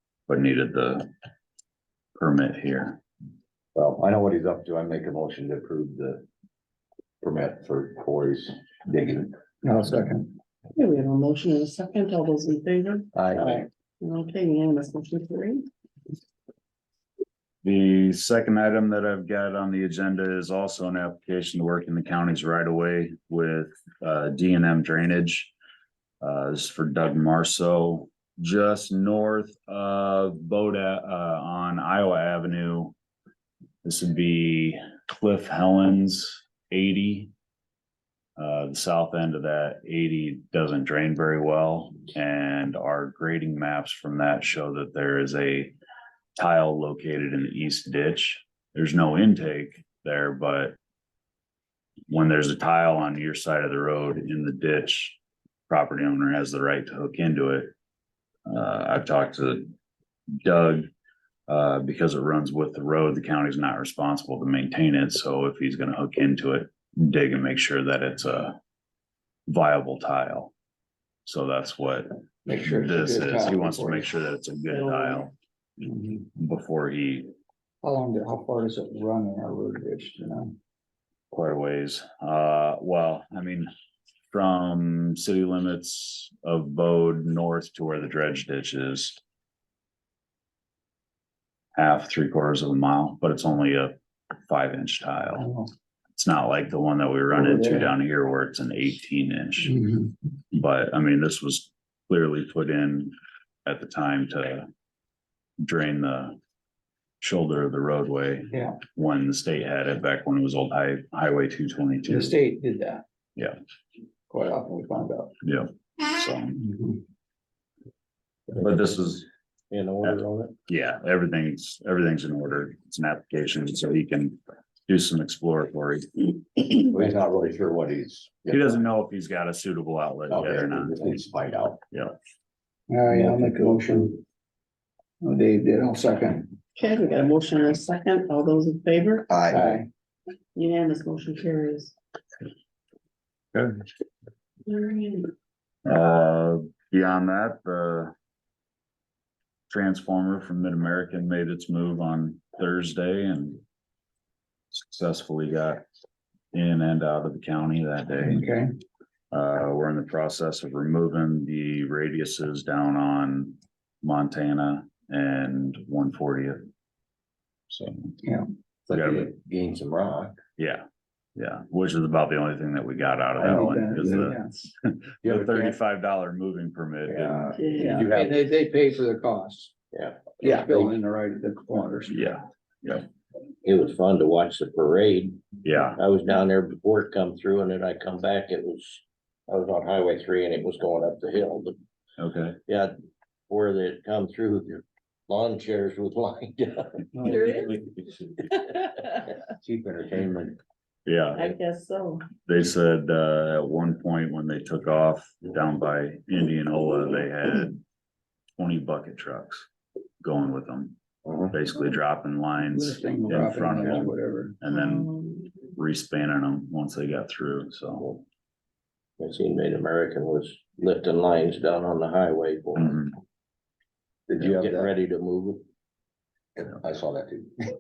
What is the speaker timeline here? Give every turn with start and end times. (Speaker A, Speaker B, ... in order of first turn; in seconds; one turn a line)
Speaker A: 0.3-1.1
Speaker A: 2.2-3.0
Speaker B: 3.8-6.2
Speaker B: 7.2-9.3
Speaker C: 9.6-10.3
Speaker D: 10.8-15.7
Speaker B: 13.2-13.6
Speaker A: 17.6-25.5
Speaker A: 26.2-33.0
Speaker A: 33.8-37.3
Speaker A: 38.4-45.8
Speaker A: 46.4-50.8
Speaker A: 52.1-55.2
Speaker A: 55.7-57.7
Speaker A: 58.5-59.7
Speaker A: 60.4-60.9
Speaker A: 61.5-68.6
Speaker A: 69.5-70.5
Speaker A: 71.2-75.3
Speaker C: 72.5-74.1
Speaker C: 75.8-76.3
Speaker A: 76.4-77.3
Speaker C: 77.8-80.6
Speaker A: 81.3-83.7
Speaker A: 84.3-89.2
Speaker A: 91.8-93.9
Speaker A: 94.5-95.5
Speaker C: 95.4-95.7
Speaker A: 96.2-99.8
Speaker C: 97.3-97.9
Speaker C: 99.6-100.1
Speaker A: 100.5-103.1
Speaker A: 103.7-104.7
Speaker A: 105.6-106.4
Speaker A: 107.2-112.4
Speaker C: 108.5-108.8
Speaker C: 112.0-113.0
Speaker C: 114.3-115.3
Speaker A: 115.4-116.6
Speaker C: 116.6-117.0
Speaker A: 118.6-119.3
Speaker E: 119.7-120.6
Speaker A: 120.0-126.1
Speaker B: 126.9-128.8
Speaker A: 128.5-131.2
Speaker B: 130.3-131.8
Speaker C: 132.9-134.2
Speaker B: 133.1-133.5
Speaker C: 135.2-136.6
Speaker D: 136.8-139.3
Speaker B: 139.3-139.8
Speaker C: 139.5-139.9
Speaker D: 140.6-141.9
Speaker D: 144.7-145.3
Speaker A: 145.8-148.1
Speaker A: 149.7-153.6
Speaker A: 154.7-155.8
Speaker A: 156.5-158.5
Speaker C: 158.2-158.7
Speaker A: 159.3-166.7
Speaker A: 167.7-168.1
Speaker C: 168.2-168.5
Speaker B: 168.9-170.4
Speaker A: 168.9-169.3
Speaker A: 170.6-170.8
Speaker A: 171.4-178.1
Speaker C: 173.4-174.7
Speaker B: 175.2-175.8
Speaker B: 177.1-178.4
Speaker D: 177.6-178.0
Speaker C: 177.7-179.7
Speaker E: 179.9-180.4
Speaker C: 180.4-182.2
Speaker B: 180.4-180.9
Speaker A: 182.1-183.1
Speaker E: 183.6-191.8
Speaker A: 185.6-186.0
Speaker A: 192.2-192.6
Speaker E: 192.7-192.9
Speaker E: 193.5-197.1
Speaker D: 197.2-199.2
Speaker B: 199.5-200.6
Speaker A: 201.1-201.4
Speaker D: 201.3-202.3
Speaker A: 202.5-207.8
Speaker A: 208.6-209.7
Speaker A: 210.2-211.0
Speaker A: 211.5-218.2
Speaker C: 212.6-214.6
Speaker D: 214.7-215.5
Speaker E: 219.2-223.0
Speaker A: 222.8-223.1
Speaker B: 224.3-224.9
Speaker E: 224.4-225.7
Speaker B: 226.6-227.5